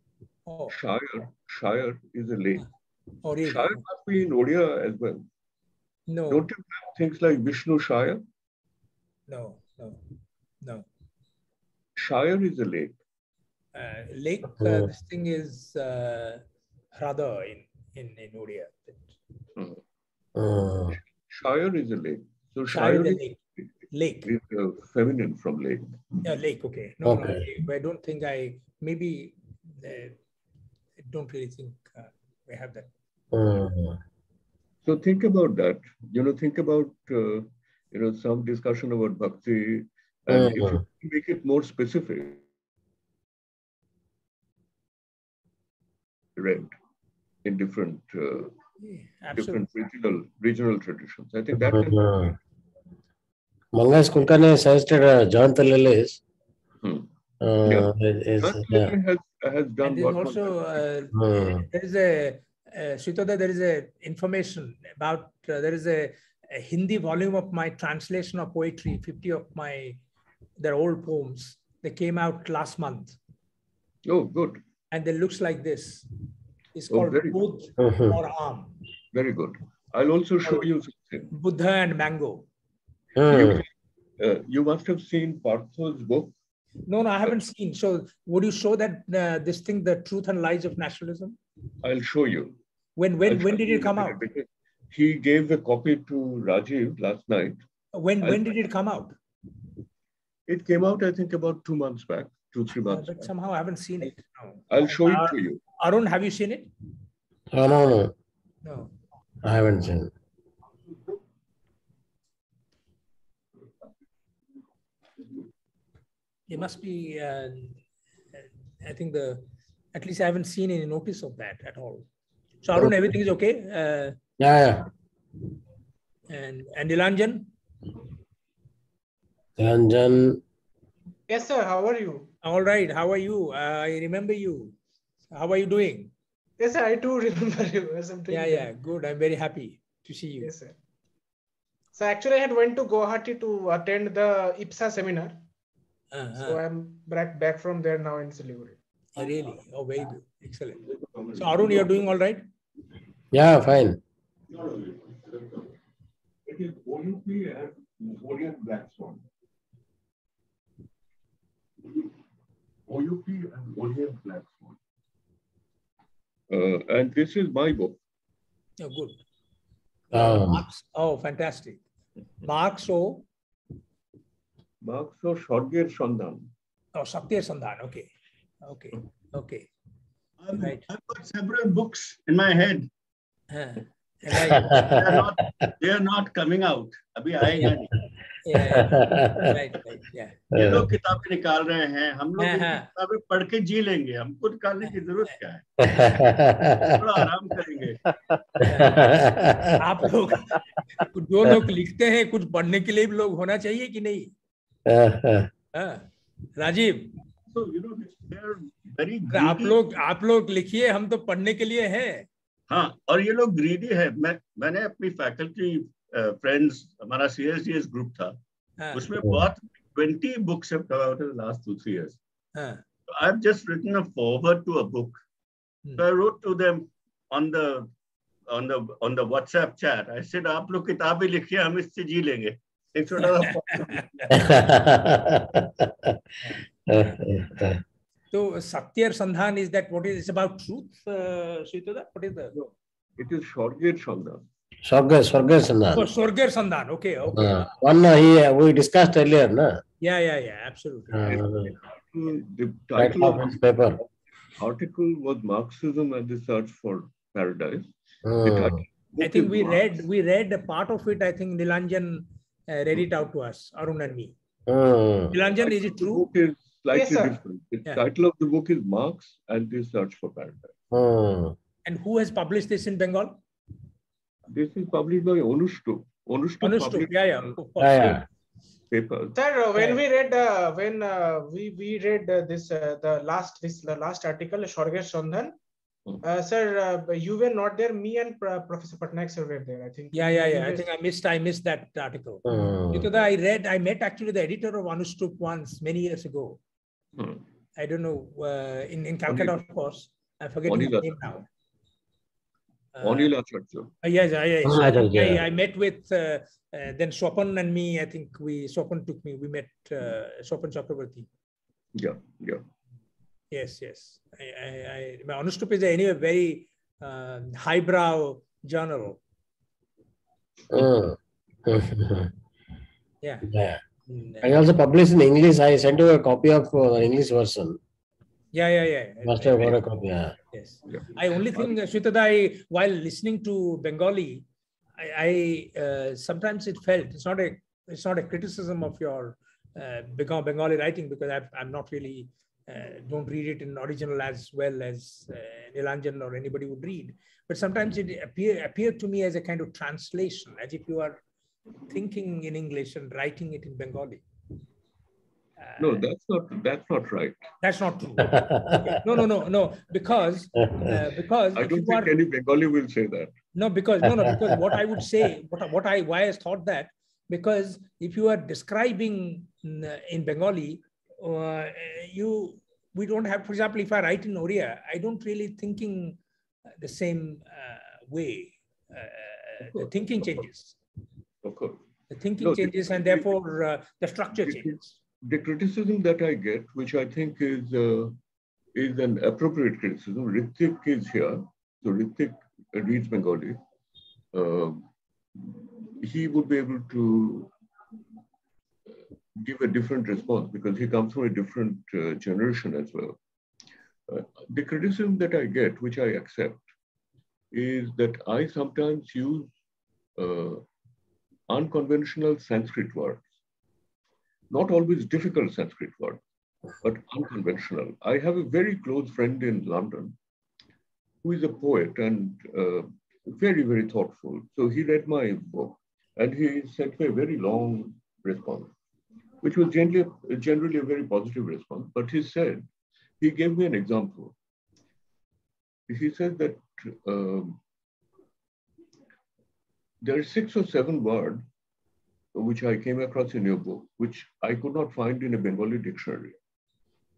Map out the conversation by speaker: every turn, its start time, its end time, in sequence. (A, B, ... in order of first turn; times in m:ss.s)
0:00.5-0:00.8 A
0:00.7-0:02.6 B
0:03.2-0:03.8 A
0:03.4-0:05.2 B
0:06.1-0:06.4 A
0:06.3-0:08.2 B
0:09.3-0:10.0 A
0:12.0-0:13.0 B
0:13.7-0:16.4 A
0:14.6-0:14.9 C
0:16.9-0:19.1 A
0:20.4-0:21.0 C
0:21.3-0:23.7 B
0:22.7-0:23.4 A
0:23.9-0:24.3 A
0:24.2-0:26.0 B
0:26.2-0:30.2 A
0:27.0-0:27.4 C
0:31.0-0:32.9 A
0:33.3-0:34.0 C
0:34.8-0:42.4 B
0:40.3-0:40.8 C
0:46.4-0:46.7 B
0:47.4-0:48.5 B
0:48.8-0:49.6 A
0:49.3-0:52.1 B
0:51.5-0:52.3 C
0:53.7-0:56.2 C
0:56.8-0:57.1 B
0:57.4-0:58.9 C
0:57.6-1:00.8 B
0:59.8-1:10.0 A
1:01.1-1:01.6 C
1:10.6-1:13.2 A
1:14.0-1:14.6 B
1:14.9-1:16.1 A
1:16.7-1:18.7 A
1:16.9-1:17.4 B
1:17.8-1:18.2 C
1:19.1-1:21.3 B
1:21.3-1:22.4 A
1:23.2-1:23.6 C
1:23.3-1:23.7 B
1:24.2-1:26.3 B
1:26.9-1:31.4 A
1:31.8-1:32.6 B
1:33.0-1:34.2 A
1:33.2-1:37.6 B
1:37.9-1:39.1 A
1:38.2-1:38.5 B
1:40.5-1:43.3 B
1:42.9-1:46.7 A
1:44.7-1:45.6 B
1:47.5-1:48.1 C
1:48.6-1:48.9 A
1:49.4-1:50.1 C
1:56.5-1:57.8 A
1:58.3-1:59.4 A
1:59.9-2:02.0 A
2:02.6-2:04.2 A
2:04.4-2:04.8 C
2:06.3-2:07.5 A
2:09.6-2:10.4 C
2:11.3-2:12.3 D
2:12.4-2:14.7 A
2:15.3-2:16.1 A
2:16.6-2:18.7 D
2:18.3-2:20.5 A
2:20.4-2:20.7 D
2:21.9-2:25.4 D
2:26.1-2:26.6 A
2:26.4-2:28.8 D
2:29.2-2:30.8 A
2:30.9-2:32.0 B
2:31.4-2:32.4 A
2:33.3-2:34.0 C
2:34.5-2:35.2 E
2:36.5-2:39.2 B
2:42.9-2:44.7 B
2:46.5-2:48.0 B
2:48.8-2:49.2 A
2:50.1-2:51.8 A
2:50.1-2:50.6 C
2:52.4-2:53.2 A
2:54.8-2:56.5 B
2:56.9-2:58.1 A
2:58.6-2:59.7 A
3:00.4-3:02.9 E
3:00.5-3:00.8 A
3:03.5-3:04.8 A
3:04.5-3:05.3 C
3:04.8-3:07.9 E
3:08.4-3:10.5 A
3:08.5-3:09.5 C
3:10.5-3:15.6 E
3:10.5-3:10.9 C
3:12.4-3:12.9 A
3:15.8-3:17.3 C
3:16.9-3:18.0 E
3:18.3-3:20.1 C
3:18.6-3:19.0 A
3:19.8-3:24.3 A
3:24.9-3:25.5 C
3:25.7-3:27.1 A
3:27.5-3:29.8 E
3:29.3-3:32.2 A
3:32.7-3:38.4 E
3:38.8-3:39.1 A
3:38.9-3:42.2 E
3:42.5-3:42.8 A
3:43.1-3:45.2 E
3:46.0-3:47.9 E
3:48.5-3:54.2 E
3:53.2-3:54.3 A
3:54.3-3:56.2 C
3:56.9-3:57.8 C
3:58.3-4:02.5 A
4:02.5-4:04.4 B
4:04.8-4:06.0 C
4:05.9-4:07.7 A
4:07.3-4:09.8 C
4:10.0-4:11.4 A
4:11.1-4:11.7 C
4:11.3-4:14.0 B
4:13.0-4:14.0 C
4:14.6-4:17.9 B
4:18.2-4:18.8 C
4:18.4-4:20.0 B
4:19.2-4:24.3 A
4:24.7-4:25.3 C
4:25.3-4:26.2 A
4:25.6-4:30.7 B
4:26.9-4:27.4 D
4:30.9-4:31.6 C
4:31.8-4:33.4 A
4:34.5-4:38.1 B
4:36.6-4:38.2 A
4:37.8-4:38.2 C
4:38.9-4:39.4 B
4:39.4-4:45.5 D
4:46.2-4:50.8 D
4:50.1-4:56.6 A
4:52.4-4:53.1 C
4:57.8-5:01.5 A
4:59.3-4:59.6 B
5:00.7-5:01.2 B
5:02.9-5:03.3 A
5:03.0-5:03.9 B
5:04.0-5:11.3 A
5:04.6-5:05.4 C
5:11.9-5:12.6 B
5:13.5-5:19.2 A
5:20.7-5:22.3 C
5:23.2-5:23.5 A
5:23.4-5:23.8 C
5:24.1-5:24.6 A
5:24.4-5:27.8 C
5:28.5-5:29.7 A
5:29.2-5:30.3 C
5:30.5-5:34.4 A
5:30.8-5:31.8 B
5:35.0-5:51.2 A
5:51.9-5:54.2 A
5:55.8-5:57.4 B
5:57.6-6:02.1 A
5:58.2-5:59.0 C
6:00.7-6:01.0 C
6:01.5-6:03.3 B
6:03.5-6:16.2 A
6:04.0-6:04.5 C
6:16.8-6:20.7 A
6:19.6-6:20.4 B
6:21.4-6:21.8 B
6:22.1-6:24.9 A
6:22.4-6:23.3 B
6:24.3-6:28.2 B
6:28.7-6:33.6 B
6:34.3-6:34.8 B
6:35.4-6:37.5 B
6:39.4-6:43.2 B
6:44.1-6:46.6 B
6:47.5-6:49.5 B
6:50.2-6:50.6 B
6:51.5-6:53.3 B
6:54.5-6:56.2 B
6:56.8-7:00.2 B
7:01.2-7:08.7 B
7:09.4-7:12.7 B
7:13.2-7:14.3 B
7:15.9-7:17.6 B
7:20.0-7:21.4 B
7:22.3-7:26.4 B